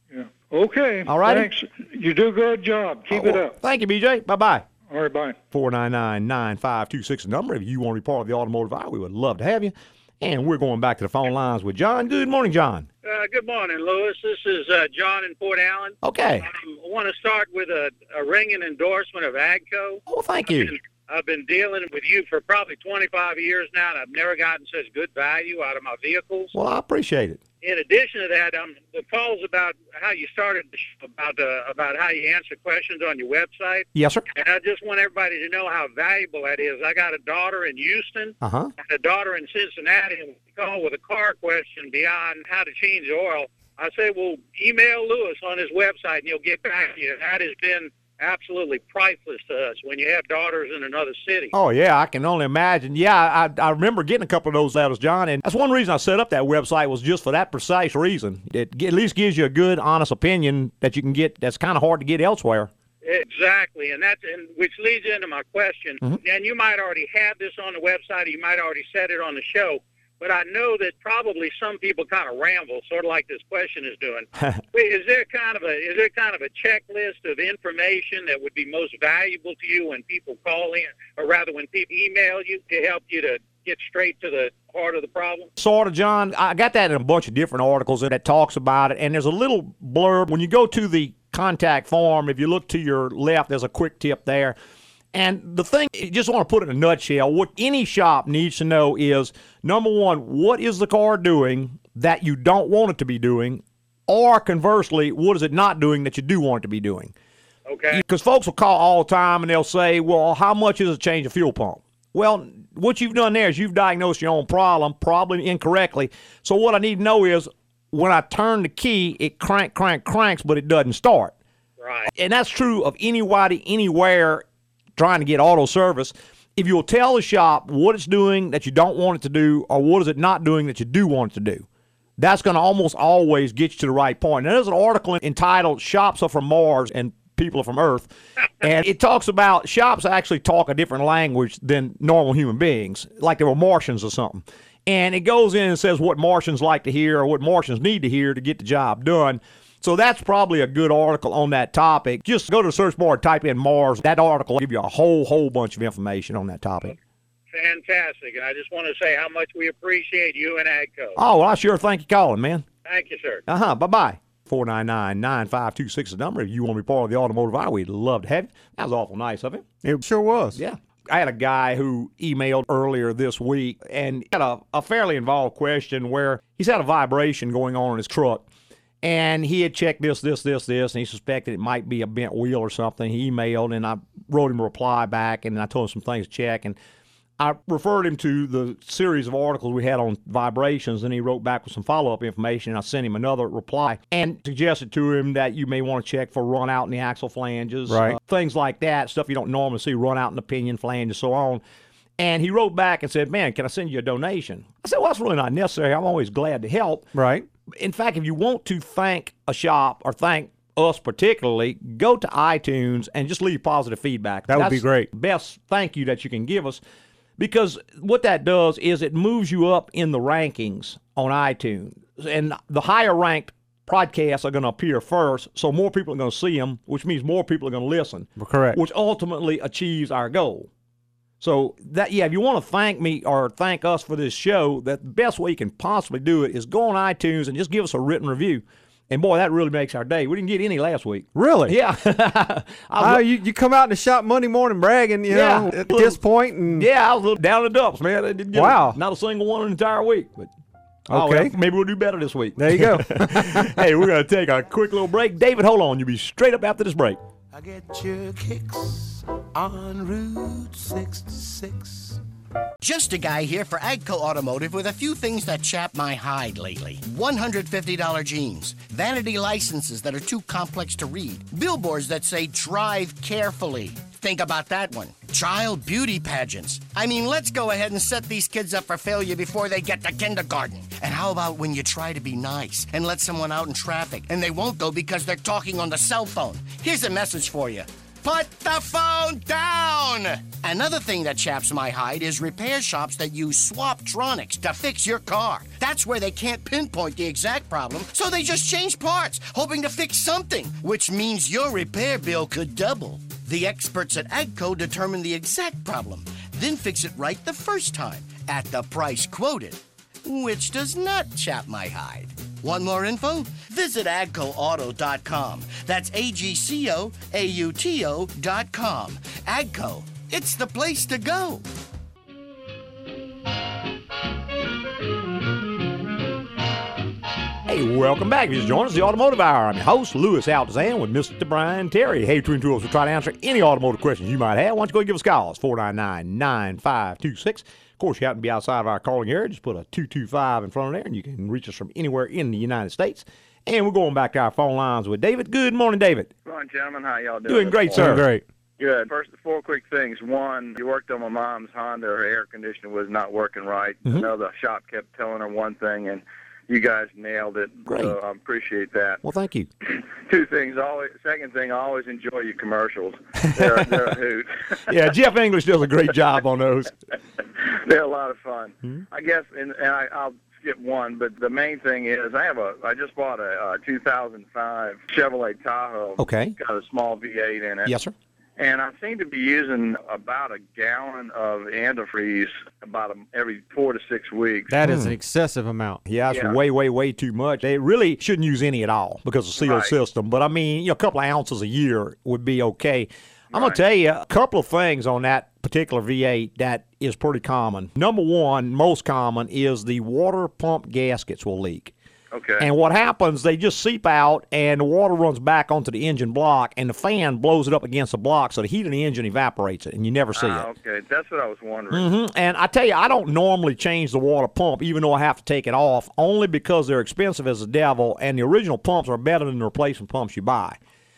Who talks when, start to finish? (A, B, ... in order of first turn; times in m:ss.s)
0:00.1-0:03.5 A
0:01.1-0:01.5 B
0:03.1-0:04.6 B
0:04.9-0:05.4 A
0:05.5-0:12.9 B
0:13.0-0:26.5 C
0:16.0-0:16.5 B
0:20.1-0:20.7 B
0:26.5-0:27.4 B
0:27.6-0:51.5 C
0:33.9-0:34.2 B
0:38.4-0:38.7 B
0:51.5-1:02.7 B
1:03.0-1:25.5 C
1:25.6-1:34.6 B
1:35.1-1:47.1 B
1:47.7-1:48.0 C
1:47.9-2:01.3 B
2:01.8-2:02.1 C
2:02.1-2:04.4 B
2:05.0-2:11.6 B
2:12.2-2:18.1 B
2:18.6-2:37.0 B
2:37.5-2:41.2 C
2:41.2-2:42.7 B
2:42.8-2:43.4 C
2:43.5-2:49.6 B
2:49.8-2:50.6 D
2:50.5-2:58.4 B
2:59.0-3:06.8 B
3:07.4-3:21.6 B
3:17.9-3:18.2 D
3:22.2-3:27.1 B
3:27.1-3:27.5 D
3:27.7-3:36.8 B
3:34.5-3:35.1 D
3:37.4-3:50.7 B
3:48.4-3:48.8 D
3:51.4-4:03.2 B
4:01.3-4:01.7 D
4:03.0-4:06.9 D
4:05.3-4:10.5 B
4:08.5-4:09.0 D
4:11.1-4:17.2 B
4:11.1-4:11.5 D
4:12.6-4:13.8 D
4:17.5-4:22.2 E
4:22.8-5:21.6 F
5:27.6-5:46.3 B
5:46.4-5:48.2 G
5:47.5-5:48.3 B
5:48.0-5:48.4 D
5:48.8-5:59.2 G
5:57.9-5:58.2 B
5:59.2-5:59.7 B
5:59.8-6:04.8 G
6:04.9-6:06.9 B
6:07.4-6:17.9 G
6:16.2-6:16.5 B
6:17.8-6:18.1 B
6:18.6-6:24.7 G
6:24.7-6:26.0 D
6:24.8-6:25.1 B
6:26.0-6:41.9 B
6:26.3-6:26.6 G
6:29.6-6:29.9 G
6:33.5-6:33.8 G
6:42.3-6:42.7 G
6:42.6-6:50.7 B
6:50.3-6:52.1 G
6:51.9-7:00.8 B